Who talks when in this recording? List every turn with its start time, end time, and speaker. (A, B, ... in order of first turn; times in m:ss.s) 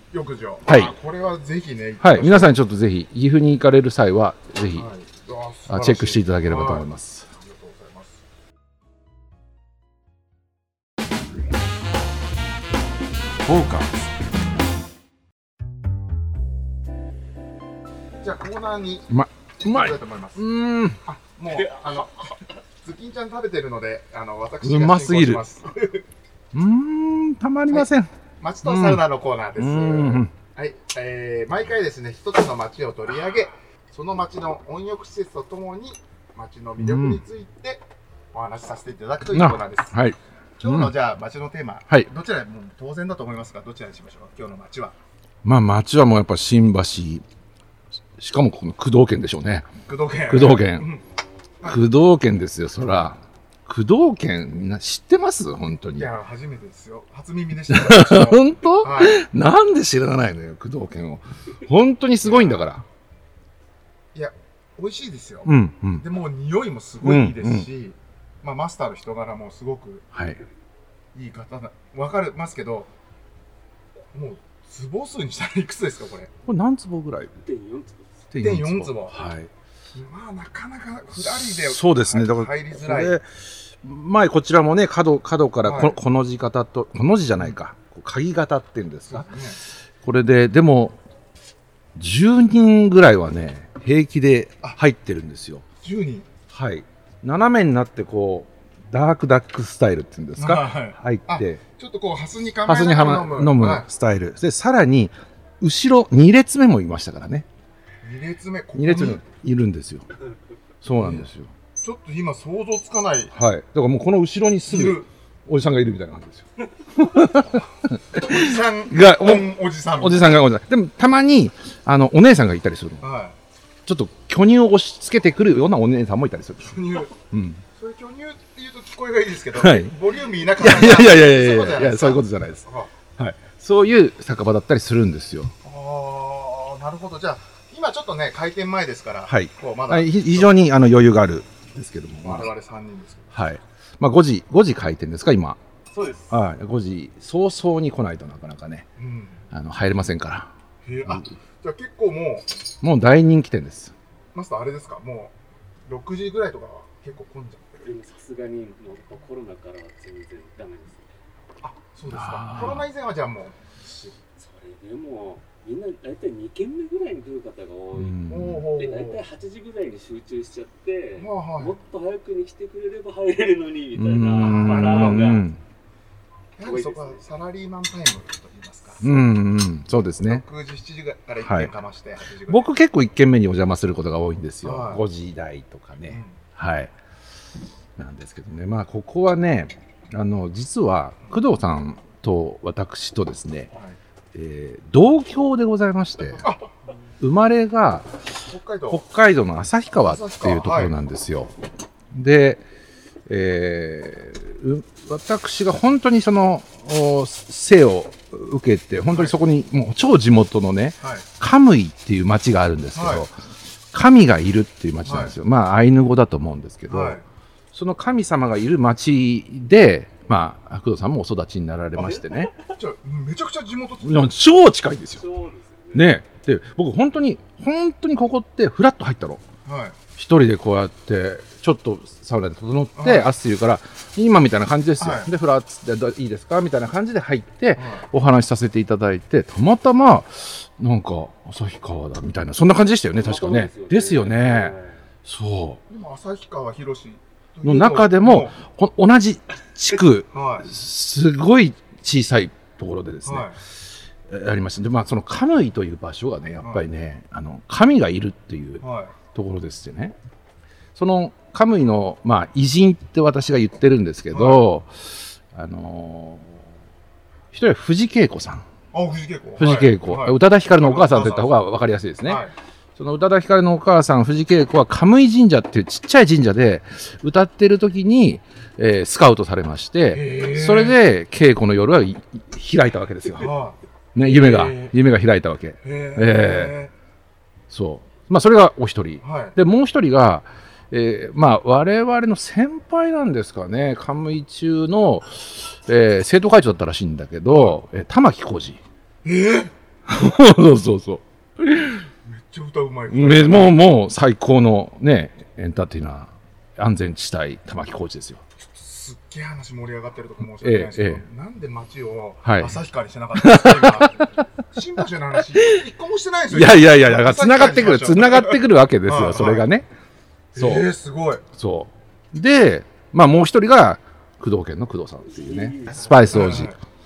0:00.1-0:02.6 A
0:00.7-0:00.9 B
0:02.0-0:04.9 B
0:04.7-0:08.2 A
0:05.7-0:07.3 B
0:13.4-0:14.1 B
0:18.2-0:19.1 A
0:19.1-0:21.0 B
0:19.6-0:20.5 A
0:21.0-0:26.0 A
0:24.6-0:25.4 B
0:26.5-0:28.1 B
0:27.7-0:40.0 A
0:28.6-0:29.0 B
0:29.6-0:30.3 B
0:36.8-0:37.2 B
0:39.3-0:40.9 B
0:40.6-0:45.0 A
0:45.4-0:47.2 B
0:48.2-0:49.7 B
0:49.8-0:51.0 A
0:50.3-0:50.9 B
0:51.6-0:56.1 B
0:55.9-0:59.2 A
0:57.7-1:02.8 B
1:02.2-1:02.7 A
1:04.1-1:10.0 A
1:05.4-1:06.0 B
1:07.0-1:07.7 B
1:10.1-1:10.4 B
1:11.1-1:12.9 A
1:14.1-1:16.3 A
1:16.4-1:17.4 B
1:17.4-1:18.2 C
1:18.3-1:19.5 B
1:18.4-1:19.2 A
1:19.9-1:23.2 A
1:21.3-1:29.3 B
1:25.6-1:26.0 A
1:29.1-1:29.6 A
1:30.0-1:31.0 B
1:31.9-1:35.6 B
1:35.8-1:36.3 A
1:36.5-1:41.6 B
1:40.4-1:43.9 A
1:42.6-1:47.4 B
1:48.0-1:49.2 A
1:48.8-1:50.1 B
1:50.8-1:51.5 B
1:51.0-1:51.3 A
1:51.8-1:53.3 A
1:53.3-2:03.0 B
1:54.7-1:55.1 A
1:58.1-2:00.4 A
2:03.0-2:03.4 A
2:03.8-2:07.6 B
2:06.7-2:07.1 A
2:07.7-2:12.9 A
2:09.5-2:09.9 B
2:10.6-2:12.6 B
2:13.2-2:15.5 B
2:15.6-2:20.5 A
2:19.3-2:22.5 B
2:22.2-2:23.4 A
2:23.3-2:25.6 B
2:25.9-2:26.3 A
2:26.3-2:28.9 B
2:29.0-2:29.4 A
2:29.5-2:30.5 B
2:30.8-2:32.5 A
2:32.8-2:33.9 B
2:34.3-2:35.3 A
2:35.9-2:37.8 A
2:37.8-2:41.1 C
2:41.6-2:44.1 A
2:42.1-2:42.8 B
2:44.4-2:48.2 C
2:47.9-2:48.7 B
2:48.3-2:49.2 A
2:48.7-2:55.5 C
2:51.1-2:51.8 A
2:53.9-2:55.6 B
2:54.4-2:55.4 A
2:56.6-2:59.1 A
2:56.6-2:57.2 C
2:59.0-3:00.4 B
3:00.2-3:02.7 A
3:01.4-3:01.7 B
3:02.5-3:06.9 B
3:04.6-3:05.0 A
3:06.1-3:06.4 A
3:08.0-3:13.7 B
3:14.3-3:16.4 B
3:16.4-3:16.7 A
3:17.2-3:18.2 B
3:18.4-3:19.0 A
3:18.9-3:21.5 B
3:20.0-3:20.9 A
3:22.1-3:22.6 B
3:23.3-3:33.3 B
3:29.1-3:29.4 A
3:31.0-3:31.2 A
3:32.9-3:33.2 A
3:33.9-3:37.2 B
3:35.0-3:35.3 A
3:36.9-3:37.2 A
3:37.7-3:42.5 B
3:42.0-3:42.6 C
3:42.6-3:44.3 A
3:44.0-3:45.2 B
3:45.2-3:46.1 C
3:45.9-3:49.4 B
3:49.6-3:50.0 A
3:50.2-4:05.8 B
3:52.9-3:53.3 A
3:55.0-3:55.3 A
3:57.8-3:58.0 A
4:03.2-4:05.0 C
4:05.9-4:08.5 A
4:07.6-4:13.5 B
4:10.3-4:10.7 A
4:13.2-4:13.6 A
4:14.3-4:20.2 B
4:16.6-4:16.8 A
4:18.8-4:19.1 A
4:20.9-4:26.6 B
4:24.3-4:24.6 A
4:27.5-4:28.6 B
4:28.9-4:31.6 A
4:29.6-4:32.4 B
4:32.2-4:32.5 A
4:33.0-4:43.5 B
4:40.1-4:41.0 A
4:43.4-4:44.9 A
4:44.1-4:46.8 B
4:45.8-4:46.9 A
4:47.7-4:58.8 B
4:49.2-4:49.6 A
4:57.5-4:57.8 A
4:59.2-4:59.7 A
5:00.0-5:02.1 B
5:02.2-5:03.8 A
5:03.1-5:08.4 B
5:08.7-5:19.7 A
5:10.6-5:11.2 B
5:12.4-5:12.8 B
5:13.4-5:14.3 B
5:15.5-5:15.8 B
5:16.5-5:19.9 B
5:20.5-5:20.9 B
5:20.5-5:21.4 A
5:21.5-5:26.7 B
5:25.4-5:26.2 C
5:26.2-5:26.8 A